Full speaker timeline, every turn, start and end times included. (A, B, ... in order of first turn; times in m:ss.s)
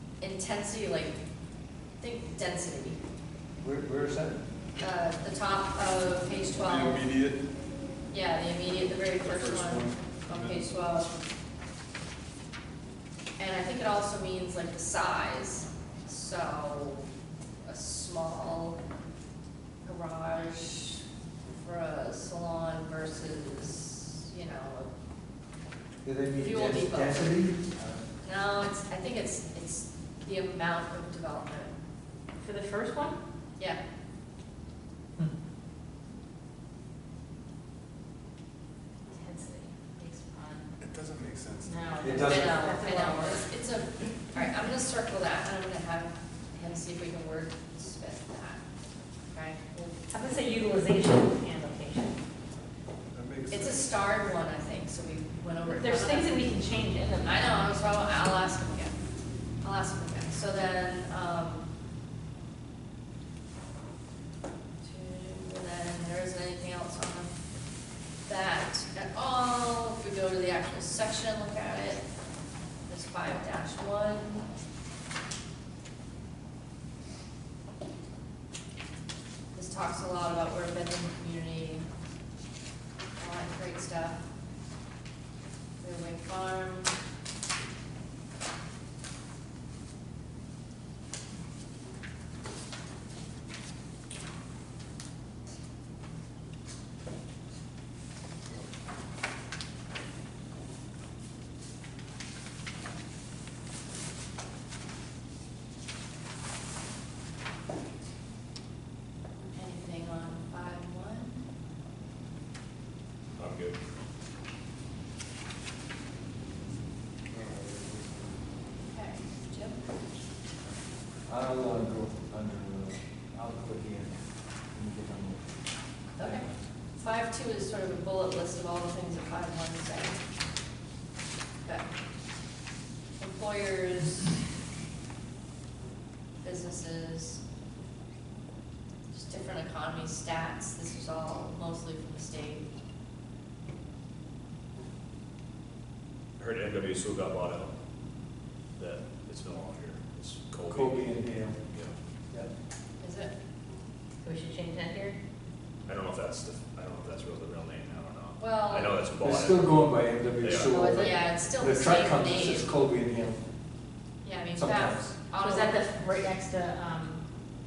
0:00.2-0:01.2 A
0:02.0-0:03.0 A
0:03.6-0:04.4 B
0:04.8-0:07.0 A
0:06.6-0:07.4 C
0:08.1-0:11.1 A
0:09.2-0:10.7 C
0:13.4-0:17.1 A
0:17.7-0:18.8 A
0:19.8-0:21.0 A
0:21.5-0:24.9 A
0:26.0-0:28.0 B
0:26.3-0:27.4 A
0:28.2-0:31.7 A
0:32.4-0:33.2 D
0:39.1-0:40.7 D
0:40.8-0:42.2 C
0:41.6-0:43.5 D
0:42.0-0:42.7 B
0:42.1-0:48.6 A
0:49.3-0:49.9 A
0:50.1-0:52.2 D
0:53.1-0:53.8 C
0:53.5-0:56.3 A
0:55.6-0:57.8 D
0:57.2-0:59.0 A
0:59.6-1:01.7 A
1:04.8-1:07.3 A
1:08.2-1:12.0 A
1:12.9-1:14.4 A
1:19.6-1:21.8 A
1:23.2-1:24.2 A
1:25.8-1:26.9 A
1:49.5-1:51.4 A
1:53.4-1:53.8 E
1:57.3-1:58.3 C
1:58.9-1:59.8 A
2:01.3-2:04.2 B
2:04.7-2:05.4 B
2:06.2-2:06.5 B
2:06.2-2:10.2 A
2:13.2-2:14.4 A
2:16.4-2:17.4 A
2:19.1-2:22.7 A
2:26.4-2:27.7 E
2:28.8-2:31.1 E
2:30.7-2:31.6 B
2:33.0-2:33.3 A
2:34.2-2:35.2 D
2:35.9-2:40.8 E
2:38.4-2:39.0 A
2:39.2-2:43.4 B
2:40.7-2:41.0 D
2:40.9-2:42.7 A
2:44.2-2:45.9 A
2:44.6-2:45.1 B
2:45.4-2:47.2 D